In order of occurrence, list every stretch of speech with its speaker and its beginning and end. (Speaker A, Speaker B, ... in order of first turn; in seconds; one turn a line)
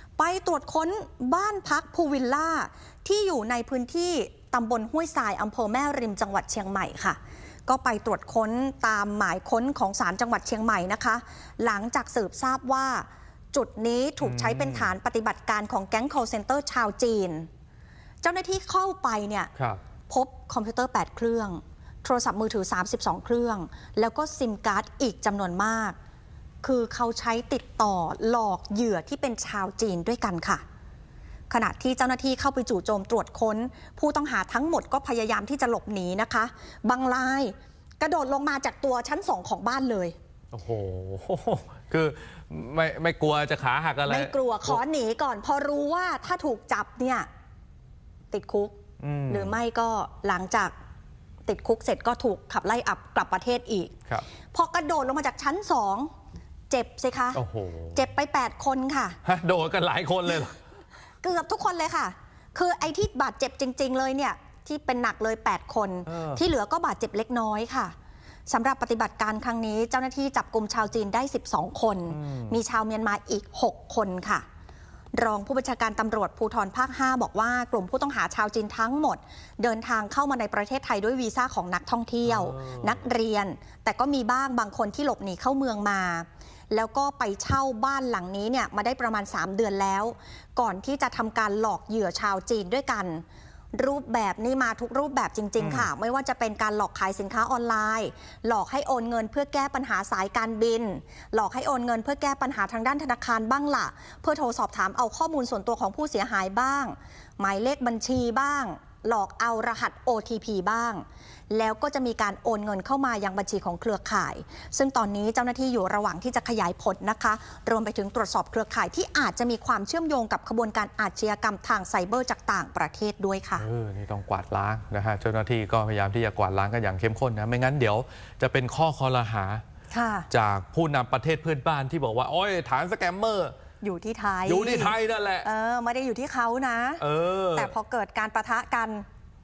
Speaker A: 0.2-17.5
Speaker B: 14.2-14.9
Speaker A: 18.2-19.5
Speaker B: 19.6-19.8
Speaker A: 20.1-25.9
Speaker A: 26.6-30.6
Speaker A: 31.5-40.1
Speaker B: 40.5-44.8
Speaker A: 44.0-47.3
Speaker A: 48.3-48.8
Speaker B: 49.0-49.6
Speaker A: 49.3-50.7
Speaker A: 51.5-54.0
Speaker A: 54.5-56.1
Speaker A: 56.7-57.4
Speaker B: 57.3-58.0
Speaker A: 57.9-59.2
Speaker B: 59.2-60.5
Speaker A: 61.2-67.9
Speaker B: 66.1-66.4
Speaker A: 68.5-74.4
Speaker B: 72.1-72.6
Speaker A: 75.1-123.7
Speaker B: 82.2-83.0
Speaker B: 95.6-95.9
Speaker B: 123.6-129.6
Speaker A: 129.9-130.3
Speaker B: 130.3-133.5
Speaker A: 133.8-139.0
Speaker B: 134.4-135.5
Speaker B: 137.0-137.7